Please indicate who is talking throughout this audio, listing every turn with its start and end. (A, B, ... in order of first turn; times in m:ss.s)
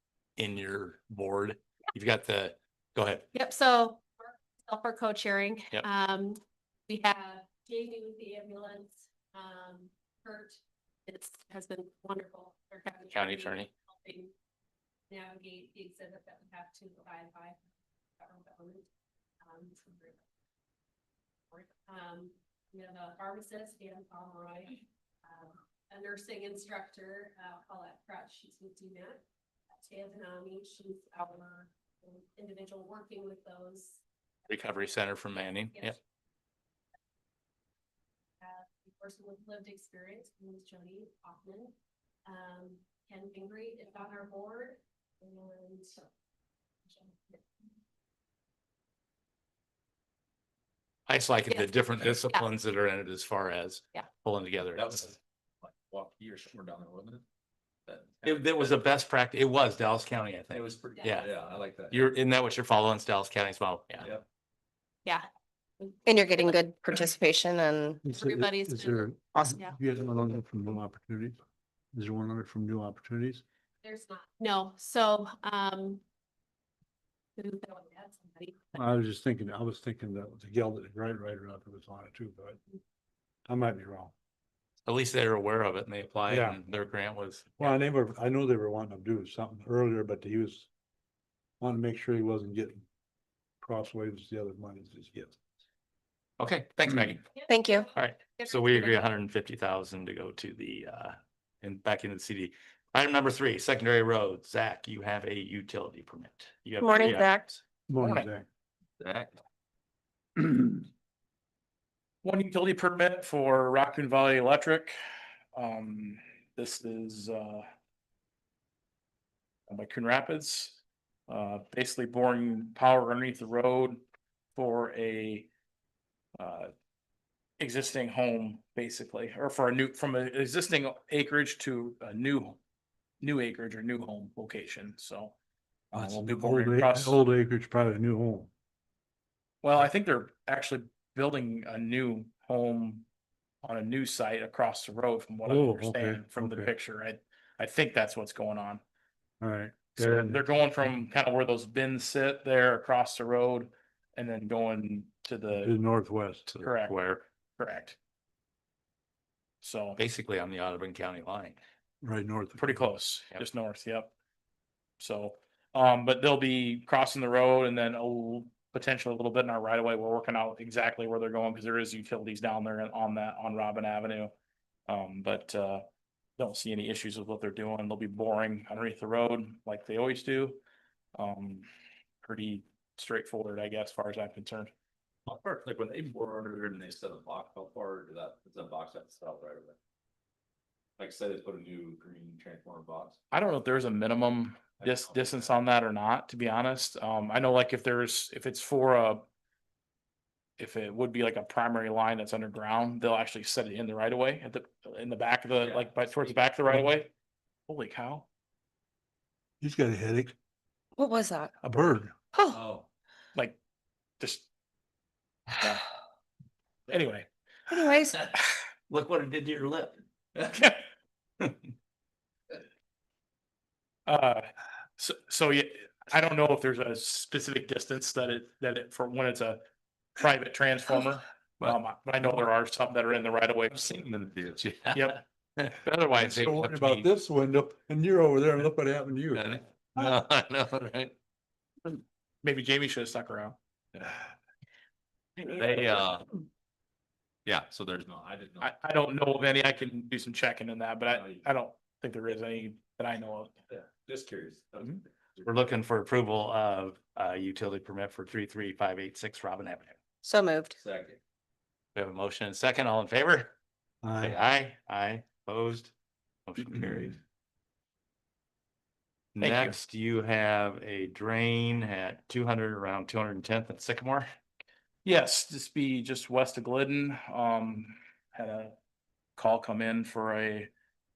0:00.4-0:03.3 A
0:03.3-0:14.3 B
0:13.1-0:13.7 A
0:15.1-0:17.6 B
0:18.2-0:18.9 B
0:19.4-0:20.2 B
0:21.5-0:29.2 B
0:29.8-0:34.0 B
0:34.5-0:36.0 A
0:38.4-0:41.7 B
0:42.3-0:45.9 B
0:46.9-0:47.4 B
0:51.1-0:55.1 A
0:51.5-0:52.5 B
0:54.8-0:57.2 C
0:57.9-0:58.8 C
0:58.2-1:01.3 A
1:00.5-1:02.1 C
1:01.9-1:04.1 A
1:05.8-1:06.5 B
1:06.0-1:08.0 D
1:08.0-1:11.4 E
1:08.1-1:09.8 B
1:11.9-1:13.4 E
1:13.8-1:16.0 B
1:17.4-1:18.8 B
1:18.7-1:22.6 E
1:23.5-1:24.1 E
1:24.9-1:27.8 A
1:26.3-1:26.6 E
1:27.6-1:30.7 E
1:31.6-1:32.8 E
1:33.6-1:35.4 E
1:36.4-1:37.3 A
1:37.5-1:37.9 D
1:37.9-1:47.6 A
1:38.4-1:38.9 B
1:46.8-1:47.5 D
1:47.9-1:48.5 E
1:49.0-1:49.3 C
1:50.5-1:50.8 E
1:52.2-1:54.9 F
1:55.5-1:57.7 F
1:59.7-2:04.0 F
2:04.6-2:05.5 F
2:06.4-2:06.7 F
2:07.6-2:12.6 F
2:13.2-2:15.4 F
2:15.9-2:17.2 F
2:15.9-2:18.5 E
2:19.6-2:23.0 F
2:23.6-2:28.8 F
2:25.4-2:26.7 E
2:29.4-2:30.4 E
2:30.0-2:35.7 F
2:35.6-2:36.5 E
2:36.5-2:37.2 A
2:36.6-2:37.0 F
2:37.6-2:38.0 F
2:39.6-2:40.0 F
2:40.0-2:41.6 A
2:42.0-2:42.9 E
2:42.6-2:44.1 F
2:45.0-2:54.3 F
2:54.9-2:55.8 F
2:56.4-3:00.6 F
3:01.2-3:01.7 F
3:02.2-3:04.7 F
3:05.3-3:09.8 C
3:11.0-3:13.2 C
3:13.3-3:19.2 F
3:14.8-3:15.6 C
3:20.6-3:27.1 F
3:25.6-3:26.4 C
3:27.7-3:28.3 F
3:29.6-3:30.3 E
3:31.0-3:31.5 D
3:31.6-3:32.1 E
3:32.3-3:32.6 D
3:32.5-3:32.9 C
3:34.2-3:34.5 F
3:36.9-3:37.3 F
3:37.7-3:38.2 D
3:38.9-3:40.0 A
3:40.4-3:40.8 F
3:44.1-3:49.6 F
3:50.2-3:53.9 F
3:54.0-3:57.1 A
3:54.9-3:55.2 F
3:56.1-3:59.6 E
3:59.3-4:01.1 A
4:02.4-4:03.6 F
4:05.6-4:06.2 C
4:07.5-4:08.7 C
4:08.6-4:13.5 F
4:11.1-4:11.5 C
4:13.7-4:15.4 C
4:15.4-4:20.0 A
4:20.2-4:20.8 D
4:20.8-4:21.2 C
4:22.0-4:23.5 A
4:24.0-4:24.4 E
4:24.2-4:25.9 A
4:26.5-4:27.2 A
4:29.4-4:34.3 A
4:29.4-4:29.8 F
4:35.0-4:38.8 F
4:39.4-4:40.7 F